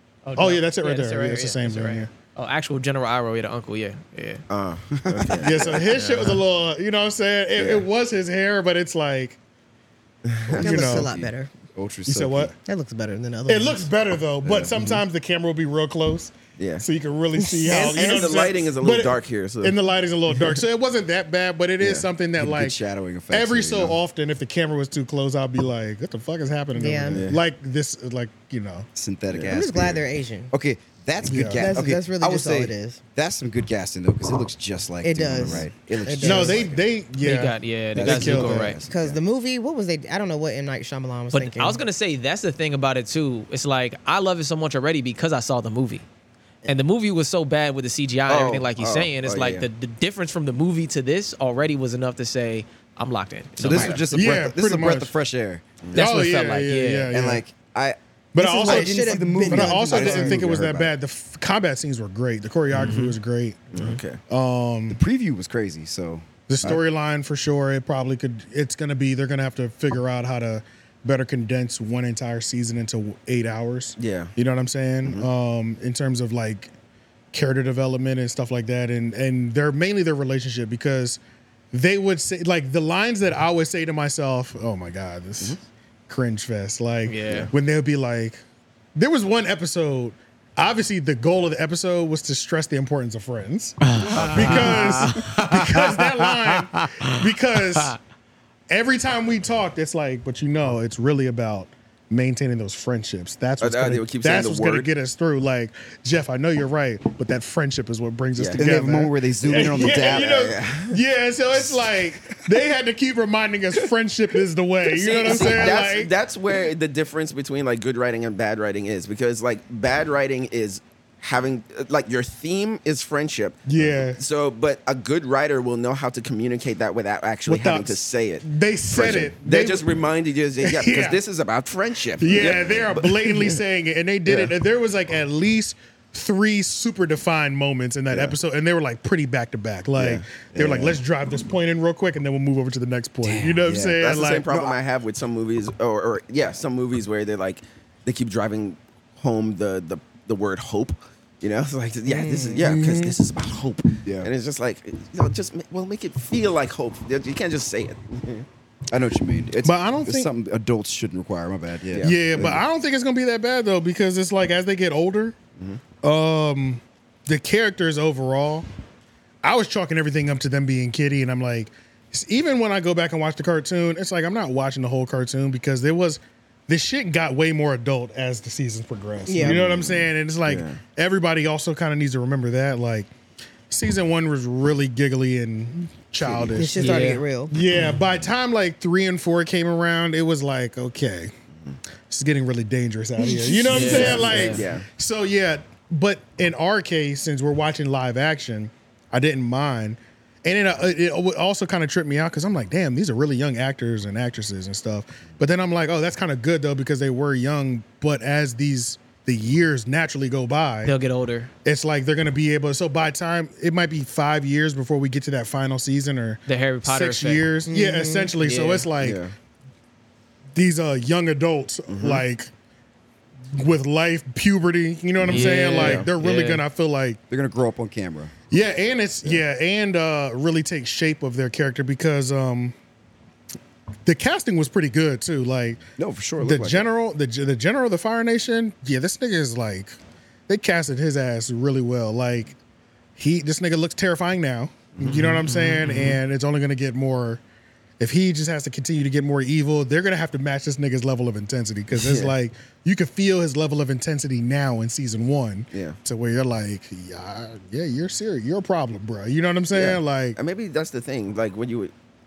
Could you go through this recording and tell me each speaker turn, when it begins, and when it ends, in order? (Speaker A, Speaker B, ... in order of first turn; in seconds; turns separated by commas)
Speaker A: 0.2-4.4, Speaker B: 0.3-2.1, Speaker C: 4.5-6.0, Speaker D: 4.9-5.4, Speaker B: 5.4-9.4, Speaker A: 5.9-6.4, Speaker C: 7.6-7.8, Speaker C: 10.2-10.8, Speaker E: 10.6-11.5, Speaker B: 10.6-11.1, Speaker D: 10.7-12.5, Speaker B: 12.1-12.5, Speaker E: 12.7-13.9, Speaker B: 13.5-22.8, Speaker D: 14.4-15.0, Speaker C: 16.6-16.8, Speaker E: 17.3-18.4, Speaker C: 17.7-19.8, Speaker C: 20.3-20.6, Speaker C: 21.8-22.1, Speaker D: 22.4-24.0, Speaker B: 23.3-28.9, Speaker E: 26.8-27.2, Speaker C: 27.1-27.4, Speaker D: 28.9-36.9, Speaker C: 29.3-29.6, Speaker E: 29.5-30.5, Speaker B: 31.2-31.7, Speaker E: 31.6-33.0, Speaker E: 35.0-36.6, Speaker B: 36.2-38.7, Speaker A: 37.2-38.8, Speaker D: 37.9-39.1, Speaker E: 38.9-41.8, Speaker A: 41.3-46.0, Speaker A: 46.6-54.1, Speaker C: 48.3-49.6, Speaker D: 53.6-55.6, Speaker B: 54.0-55.1, Speaker A: 55.9-57.1, Speaker B: 55.9-57.4, Speaker D: 57.1-58.0, Speaker B: 58.3-65.0, Speaker E: 58.4-60.4, Speaker D: 58.5-60.9, Speaker A: 62.7-63.1, Speaker C: 63.7-64.2, Speaker D: 64.9-66.8, Speaker B: 66.5-76.7, Speaker C: 74.0-74.3, Speaker B: 77.3-81.2, Speaker B: 81.7-85.6, Speaker B: 86.1-88.4, Speaker A: 87.1-87.5, Speaker B: 89.0-98.0, Speaker A: 93.8-97.9, Speaker B: 98.7-116.1, Speaker C: 103.6-104.9, Speaker C: 108.3-108.7, Speaker D: 108.5-110.4, Speaker C: 109.8-111.0, Speaker C: 114.8-133.6, Speaker B: 123.7-124.2, Speaker B: 127.5-129.9, Speaker B: 130.6-131.2, Speaker B: 132.2-144.4, Speaker C: 134.3-134.5, Speaker C: 138.1-138.3, Speaker C: 139.9-141.0, Speaker D: 143.2-144.8, Speaker C: 144.0-158.4, Speaker E: 152.1-152.6, Speaker B: 152.6-153.1, Speaker D: 154.0-154.3, Speaker D: 158.9-162.6, Speaker B: 159.6-160.3, Speaker C: 161.9-162.2, Speaker B: 162.0-165.3, Speaker C: 165.6-165.8, Speaker B: 166.0-168.7, Speaker B: 169.4-183.1, Speaker E: 179.2-179.6, Speaker C: 179.4-180.8, Speaker B: 183.7-191.3, Speaker C: 186.2-186.7, Speaker E: 186.6-187.5, Speaker A: 186.8-187.2, Speaker B: 192.1-210.9, Speaker E: 193.2-193.6, Speaker A: 193.7-194.7, Speaker C: 193.7-194.8, Speaker A: 210.8-211.5, Speaker B: 211.6-219.2, Speaker A: 216.5-217.5, Speaker E: 217.7-218.3, Speaker A: 218.4-218.9, Speaker C: 219.0-219.3, Speaker B: 220.5-222.5, Speaker C: 221.9-222.2, Speaker B: 223.5-227.2, Speaker A: 225.2-226.6, Speaker C: 225.3-226.1, Speaker D: 227.3-228.3, Speaker B: 228.5-232.7, Speaker B: 234.1-235.8, Speaker D: 236.0-236.8, Speaker B: 236.4-240.0, Speaker B: 240.5-242.6, Speaker B: 243.2-247.4, Speaker C: 245.0-246.2, Speaker B: 248.0-260.4, Speaker C: 251.9-252.3, Speaker C: 255.7-256.0, Speaker C: 259.7-261.9